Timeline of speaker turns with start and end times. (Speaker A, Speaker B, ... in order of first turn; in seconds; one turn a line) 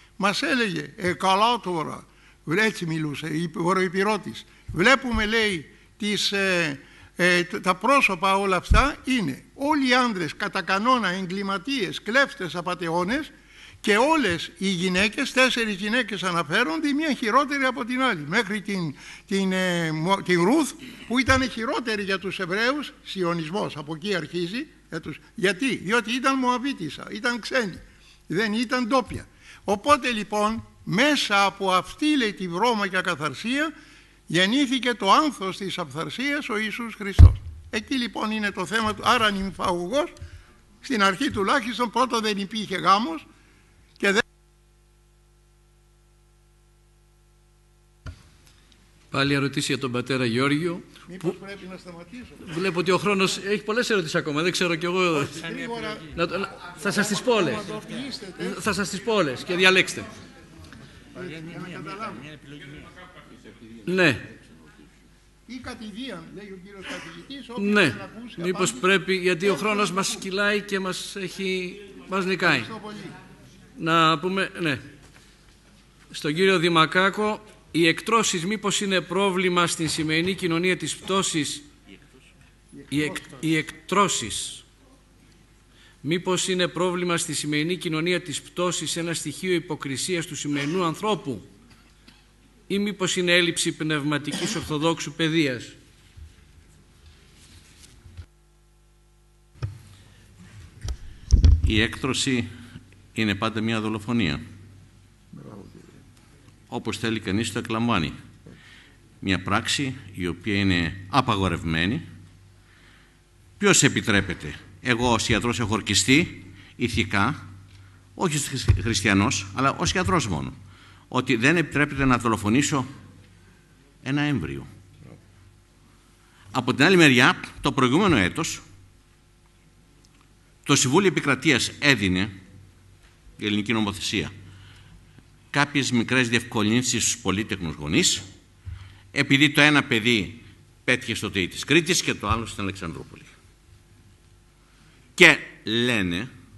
Speaker A: 0.2-33.7
Speaker A: 34.3-40.1
Speaker A: 40.8-43.2
Speaker B: 49.1-50.9
Speaker A: 51.1-52.4
Speaker B: 52.5-55.5
Speaker A: 55.3-56.1
Speaker B: 56.1-57.7
Speaker A: 57.3-58.5
Speaker B: 58.4-60.1
Speaker A: 61.2-62.4
Speaker B: 63.9-64.2
Speaker A: 65.5-68.9
Speaker B: 67.6-72.7
Speaker A: 72.7-73.1
Speaker B: 73.8-74.8
Speaker B: 76.1-81.7
Speaker B: 82.9-84.7
Speaker B: 86.0-91.5
Speaker B: 92.7-95.8
Speaker C: 101.5-102.5
Speaker C: 103.1-104.4
Speaker C: 106.7-108.2
Speaker C: 109.2-112.0
Speaker C: 113.6-117.4
Speaker C: 118.2-120.6
Speaker C: 121.1-122.9
Speaker C: 124.0-124.7
Speaker C: 126.5-128.6
Speaker C: 130.7-132.3
Speaker C: 133.4-134.3
Speaker C: 135.5-138.3
Speaker C: 139.1-143.4
Speaker C: 145.2-146.3